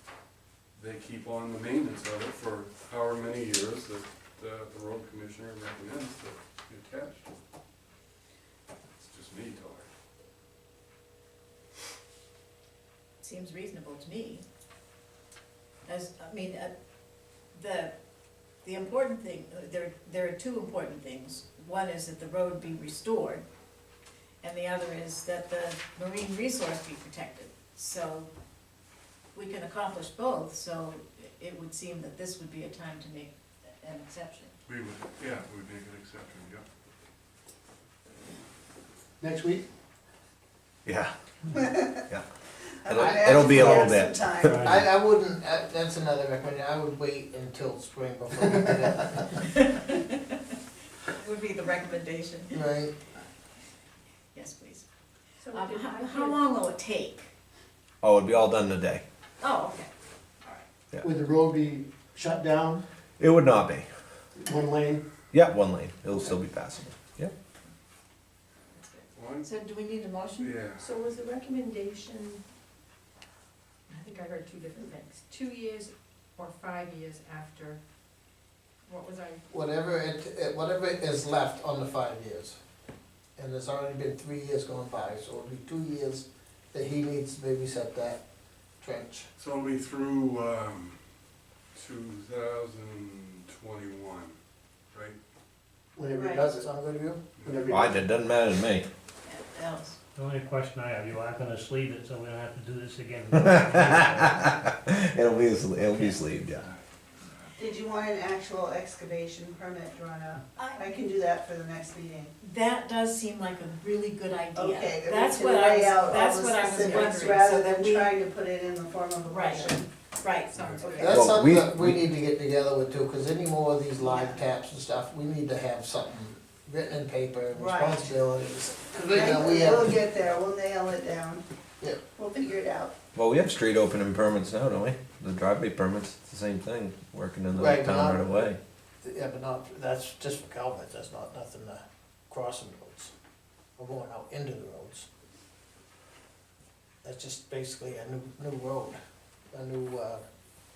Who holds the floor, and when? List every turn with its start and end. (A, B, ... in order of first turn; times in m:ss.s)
0:00.8-0:07.3 A
0:09.0-0:09.9 A
0:13.2-0:14.4 B
0:15.9-0:16.7 B
0:17.5-0:17.9 B
0:18.6-0:23.4 B
0:24.4-0:28.3 B
0:29.3-0:34.5 B
0:34.7-0:36.6 A
0:39.2-0:39.6 C
0:40.8-0:42.2 D
0:41.5-0:42.0 E
0:42.8-0:44.7 E
0:42.8-0:44.7 D
0:44.5-0:49.4 F
0:49.4-0:50.2 B
0:51.1-0:52.7 B
0:52.5-0:52.9 F
0:54.3-0:54.8 B
0:55.4-0:56.4 G
0:55.5-0:57.3 B
0:58.0-0:59.0 D
0:59.4-0:59.9 B
1:01.0-1:02.8 C
1:03.2-1:03.9 D
1:04.4-1:05.0 C
1:05.3-1:07.3 D
1:08.8-1:10.6 B
1:09.2-1:09.4 A
1:10.4-1:10.8 A
1:10.8-1:12.4 G
1:13.9-1:17.8 G
1:18.9-1:19.4 G
1:19.5-1:22.6 F
1:23.4-1:28.2 F
1:28.8-1:29.3 F
1:29.4-1:31.0 A
1:31.7-1:34.4 A
1:34.9-1:35.2 A
1:36.0-1:36.7 C
1:36.2-1:36.4 B
1:36.4-1:37.2 F
1:37.4-1:38.0 C
1:37.7-1:38.9 D
1:39.2-1:40.0 B
1:40.2-1:44.3 H
1:43.7-1:46.7 D
1:47.6-1:52.3 E
1:50.6-1:50.9 B
1:52.4-1:58.1 B
1:54.6-1:59.9 E
1:59.2-2:01.2 B
2:00.8-2:01.2 E
2:01.0-2:10.0 F
2:01.1-2:02.0 D
2:04.0-2:04.4 E
2:07.5-2:08.2 E
2:08.9-2:11.4 E
2:12.2-2:12.9 E
2:13.2-2:18.6 D
2:17.6-2:18.5 F
2:19.0-2:23.1 F
2:23.8-2:25.1 F
2:27.0-2:29.0 F
2:29.5-2:30.2 F